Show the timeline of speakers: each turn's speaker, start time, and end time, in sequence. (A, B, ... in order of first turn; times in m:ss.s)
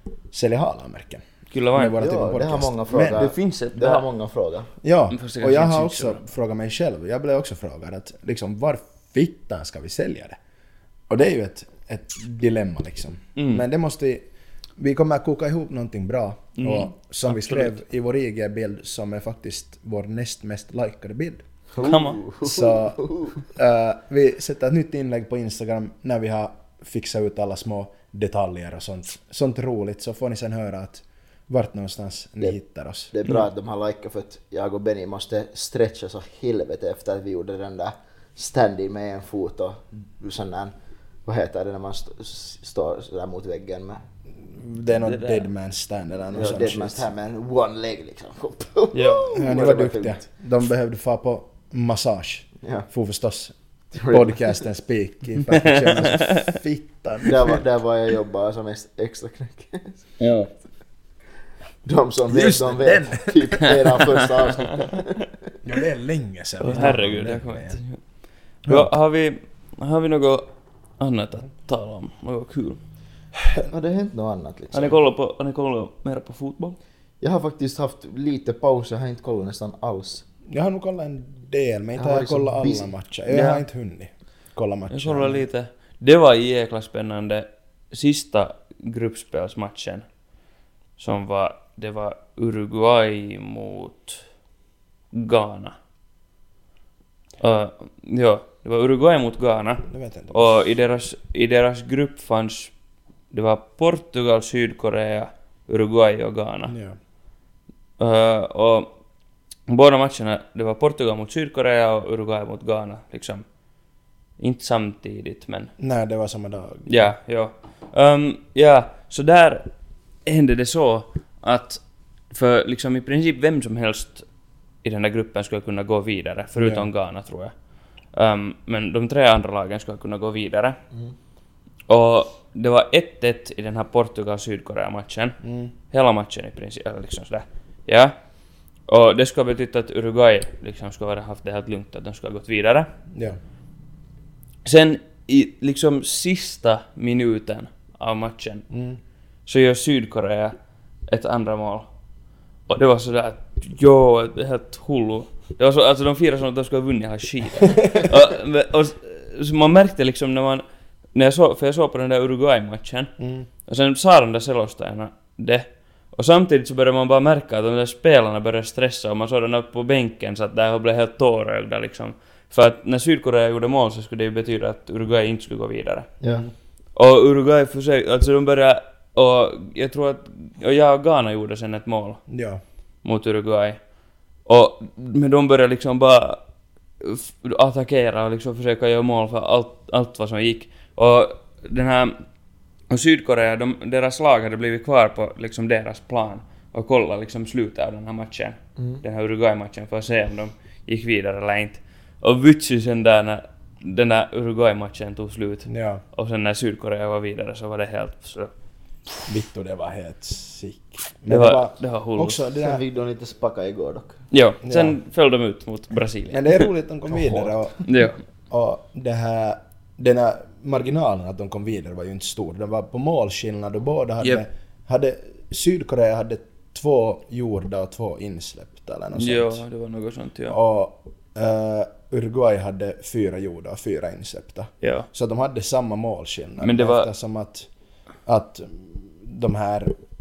0:00.3-0:03.3 A
0:01.5-0:02.0 B
0:02.0-0:04.7 C
0:03.1-0:04.0 B
0:04.8-0:10.4 A
0:05.1-0:06.2 B
0:11.1-0:14.3 A
0:13.4-0:13.6 B
0:14.8-0:21.4 A
0:16.6-0:17.7 B
0:21.7-0:23.4 C
0:21.8-0:22.2 B
0:22.4-0:33.1 A
0:33.1-0:40.7 C
0:41.2-0:44.0 C
0:44.4-0:47.1 A
0:44.9-0:45.5 B
0:46.3-0:50.2 C
0:48.9-0:49.4 B
0:49.3-0:53.5 A
0:52.6-0:52.9 C
0:53.9-0:54.6 C
0:54.1-0:57.6 A
0:55.6-0:56.5 B
0:57.2-1:00.0 C
1:00.2-1:00.5 B
1:01.8-1:05.3 C
1:02.3-1:03.7 A
1:05.6-1:07.8 A
1:06.6-1:08.0 B
1:08.6-1:12.8 B
1:13.6-1:15.0 C
1:14.7-1:16.8 B
1:17.2-1:20.2 C
1:20.5-1:25.4 A
1:22.0-1:22.9 C
1:23.3-1:23.6 B
1:24.9-1:30.0 B
1:31.0-1:34.2 B
1:35.1-1:35.8 B
1:37.4-1:42.7 B
1:39.9-1:40.6 A
1:43.3-1:46.7 B
1:46.7-1:47.0 A
1:48.0-1:48.9 B
1:49.7-1:53.4 B
1:54.4-1:55.7 B
1:55.8-1:57.1 A
1:56.9-1:59.7 B
2:00.2-2:04.2 B
2:04.8-2:07.6 B
2:06.6-2:06.9 A
2:08.1-2:10.8 B
2:11.9-2:15.4 B
2:15.4-2:15.7 A
2:15.9-2:18.1 B
2:18.9-2:22.9 B
2:23.1-2:23.4 A
2:24.6-2:28.6 B
2:28.7-2:29.0 A
2:29.4-2:30.5 B
2:31.1-2:31.9 B
2:32.7-2:43.1 B
2:43.2-2:43.5 A
2:43.6-2:56.1 B
2:56.2-2:56.4 C
2:56.9-3:02.2 B
3:02.3-3:02.6 A
3:03.0-3:03.8 B
3:04.4-3:06.4 B
3:07.0-3:12.2 B
3:12.9-3:28.5 B
3:25.7-3:26.0 A
3:29.3-3:32.8 A
3:31.3-3:32.4 B
3:32.6-3:34.2 C
3:34.3-3:36.7 B
3:34.6-3:35.0 A
3:36.3-3:37.8 A
3:37.8-3:38.2 B
3:38.5-3:49.6 A
3:49.2-3:50.6 B
3:50.5-3:57.7 A
3:54.8-3:55.1 B
3:56.6-3:57.1 B
3:58.2-4:00.0 A